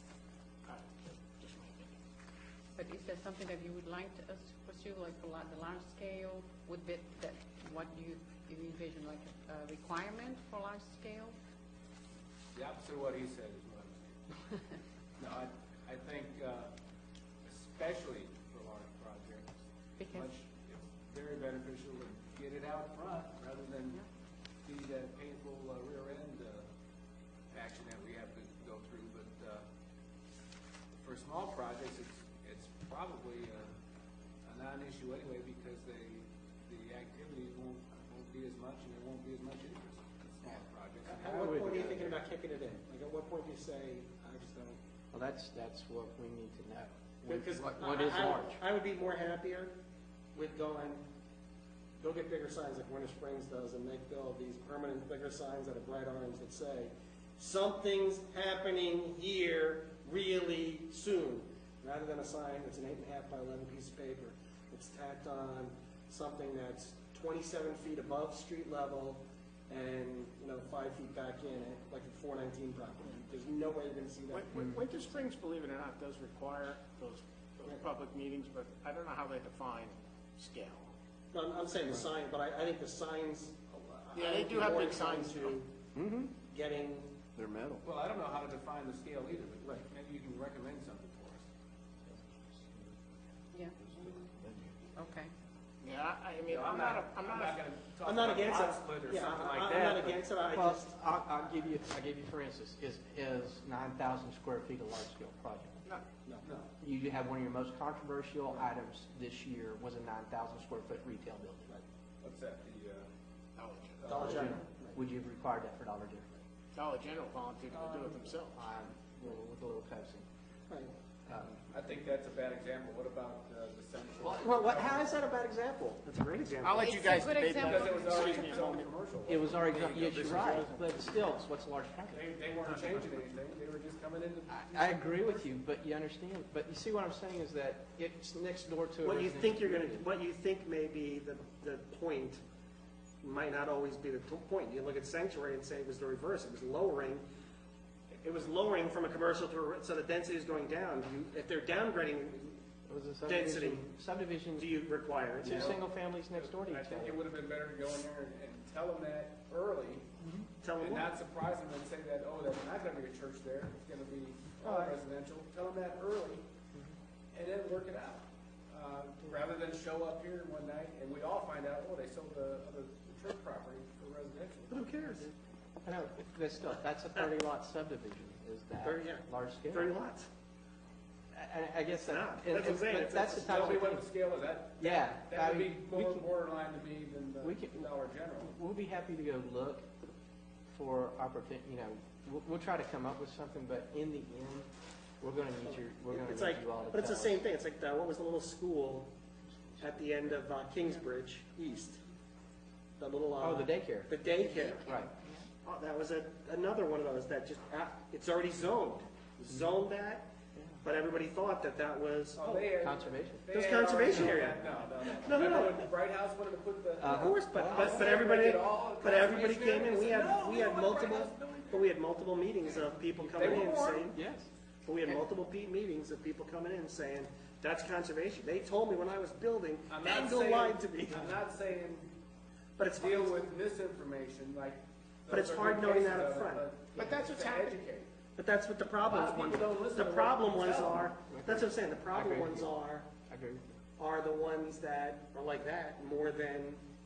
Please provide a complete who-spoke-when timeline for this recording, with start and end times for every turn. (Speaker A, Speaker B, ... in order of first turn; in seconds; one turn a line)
Speaker A: 0.7-2.0
Speaker B: 2.8-11.4
Speaker C: 12.5-14.2
Speaker C: 15.2-16.7
Speaker C: 17.4-19.6
Speaker B: 20.0-20.3
Speaker C: 20.1-24.0
Speaker C: 24.6-26.7
Speaker C: 27.5-29.6
Speaker C: 30.9-33.7
Speaker C: 34.5-41.5
Speaker D: 41.1-44.8
Speaker E: 41.3-42.2
Speaker E: 45.1-48.6
Speaker D: 47.2-49.8
Speaker D: 50.3-51.1
Speaker D: 52.0-74.5
Speaker A: 74.3-80.9
Speaker E: 74.5-74.8
Speaker D: 81.3-85.8
Speaker A: 84.1-85.6
Speaker E: 86.0-86.3
Speaker D: 86.4-87.2
Speaker E: 87.4-87.8
Speaker C: 87.8-91.5
Speaker C: 93.9-94.7
Speaker B: 95.0-95.3
Speaker A: 95.8-97.6
Speaker C: 96.5-100.2
Speaker D: 98.0-101.0
Speaker E: 100.5-105.8
Speaker C: 106.4-106.7
Speaker E: 106.8-111.8
Speaker C: 112.2-113.1
Speaker A: 113.6-114.1
Speaker C: 114.0-114.6
Speaker D: 114.1-115.0
Speaker E: 114.1-116.4
Speaker A: 116.7-118.6
Speaker C: 117.7-118.2
Speaker E: 118.5-120.3
Speaker E: 121.3-121.7
Speaker C: 121.7-125.1
Speaker E: 124.2-126.0
Speaker D: 126.0-127.0
Speaker A: 126.6-128.9
Speaker B: 126.8-128.5
Speaker C: 127.5-129.6
Speaker E: 129.3-132.3
Speaker A: 129.7-131.3
Speaker C: 132.1-135.5
Speaker E: 134.5-140.0
Speaker D: 139.0-142.4
Speaker D: 143.2-147.3
Speaker D: 148.1-152.6
Speaker E: 152.9-154.7
Speaker D: 153.3-153.9
Speaker D: 154.6-155.8
Speaker E: 155.4-157.2
Speaker C: 155.5-155.8
Speaker C: 156.3-160.1
Speaker D: 160.6-161.1
Speaker C: 160.8-166.5
Speaker D: 164.7-164.9
Speaker C: 167.3-175.0
Speaker D: 174.7-175.3
Speaker E: 175.8-179.9
Speaker D: 178.8-180.3
Speaker E: 181.3-184.1
Speaker D: 181.9-183.8
Speaker C: 183.4-188.6
Speaker E: 184.8-186.2
Speaker E: 187.4-187.9
Speaker E: 188.4-189.9
Speaker E: 190.7-197.4
Speaker D: 195.6-199.2
Speaker E: 199.5-200.4
Speaker D: 199.8-202.0
Speaker D: 203.0-205.1
Speaker E: 203.4-204.2
Speaker B: 204.3-205.1
Speaker E: 204.7-205.5
Speaker D: 205.6-212.7
Speaker E: 210.6-210.8
Speaker C: 212.4-221.9
Speaker E: 212.8-213.4
Speaker D: 213.5-215.8
Speaker E: 214.1-214.6
Speaker E: 217.0-218.1
Speaker D: 217.0-224.2
Speaker C: 223.3-224.1
Speaker E: 223.3-224.5
Speaker D: 224.8-231.4
Speaker C: 229.9-232.2
Speaker D: 232.8-233.5
Speaker C: 233.0-238.1
Speaker D: 235.3-236.7
Speaker A: 236.9-237.8
Speaker D: 238.4-243.1
Speaker C: 239.0-241.1
Speaker E: 241.3-243.7
Speaker D: 244.0-246.8